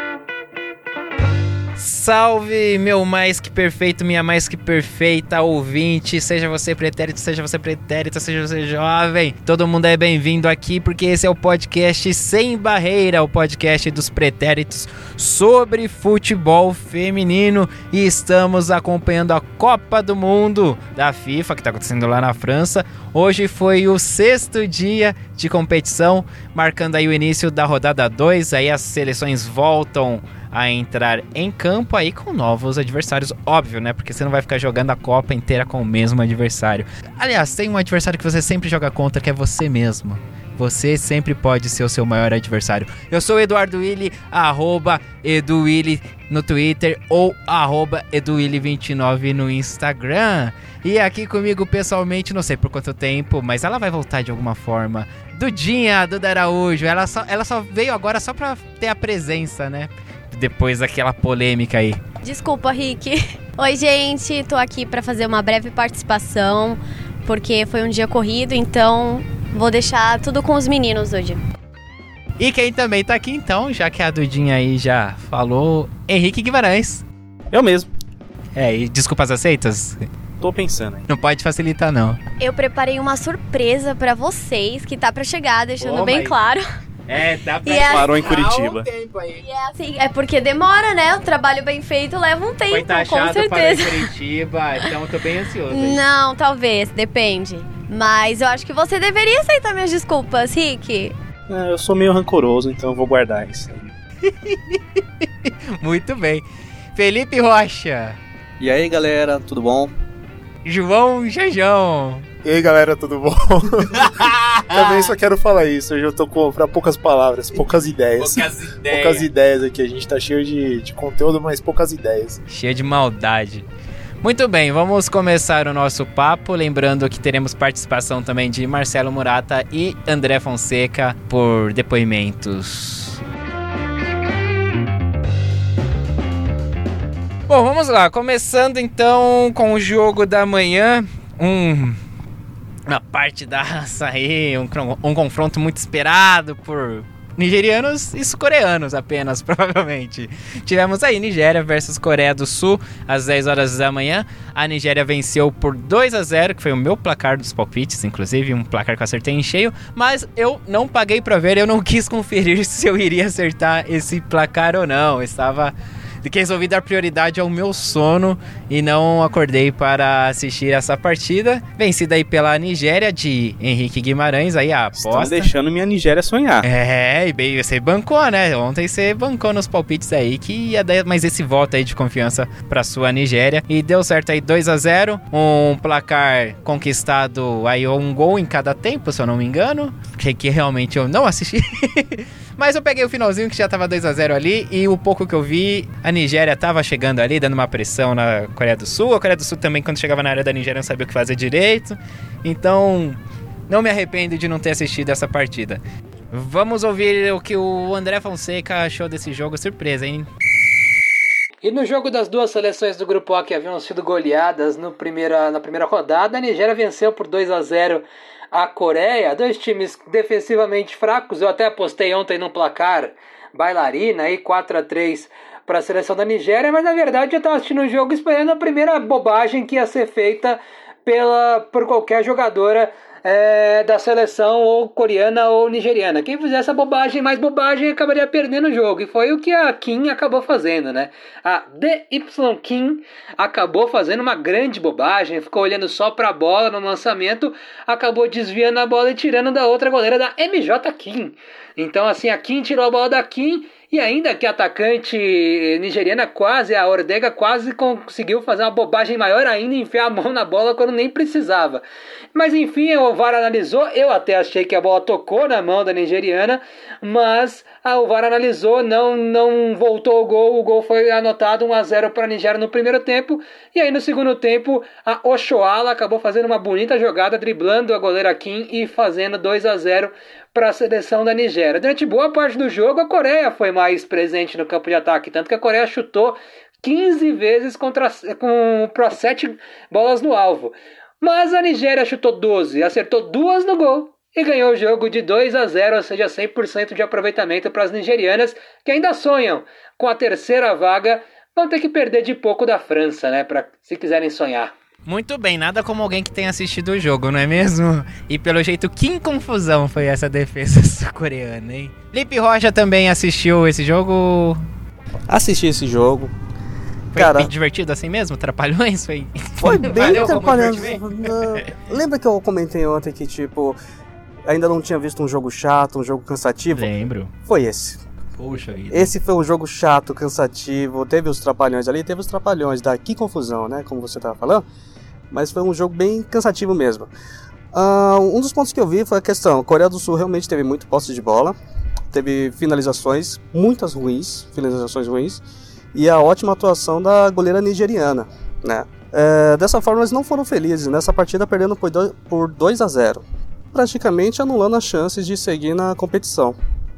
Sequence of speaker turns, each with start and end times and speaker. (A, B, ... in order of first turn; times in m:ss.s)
0:01.8-1:02.0 A
1:02.2-1:11.4 B
1:12.4-1:17.0 A
1:17.5-1:17.9 C
1:18.6-1:20.1 A
1:20.4-1:21.0 C
1:21.1-1:22.2 A
1:22.4-1:26.6 B
1:25.8-1:26.4 A
1:27.1-1:29.4 A
1:27.6-1:28.2 B
1:27.8-1:28.9 C
1:29.4-1:34.1 B
1:32.7-1:36.0 A
1:35.7-1:41.1 B
1:41.5-1:43.9 C
1:44.2-1:46.4 A
1:47.0-1:48.2 A
1:48.6-1:49.9 D
1:50.6-1:52.3 A
1:52.4-1:54.1 E
1:54.0-1:55.1 A
1:54.7-2:02.4 E
1:58.2-1:59.3 A
2:02.5-2:03.7 A
2:04.2-2:13.2 A
2:17.5-2:22.0 A
2:22.9-2:45.7 A
2:46.2-2:55.5 A
2:55.0-2:56.7 C
2:56.6-3:30.3 A
3:31.6-5:04.7 F
5:05.1-5:14.6 A
5:15.3-5:16.3 D
5:17.1-5:17.5 D
5:17.1-5:21.7 A
5:19.6-5:23.8 D
5:24.5-5:26.9 D
5:26.7-5:27.3 A
5:27.4-5:28.0 D
5:28.4-5:29.1 A
5:28.9-5:34.6 D
5:35.3-5:37.1 D
5:37.7-5:41.6 D
5:42.1-5:45.4 D
5:45.9-5:56.6 D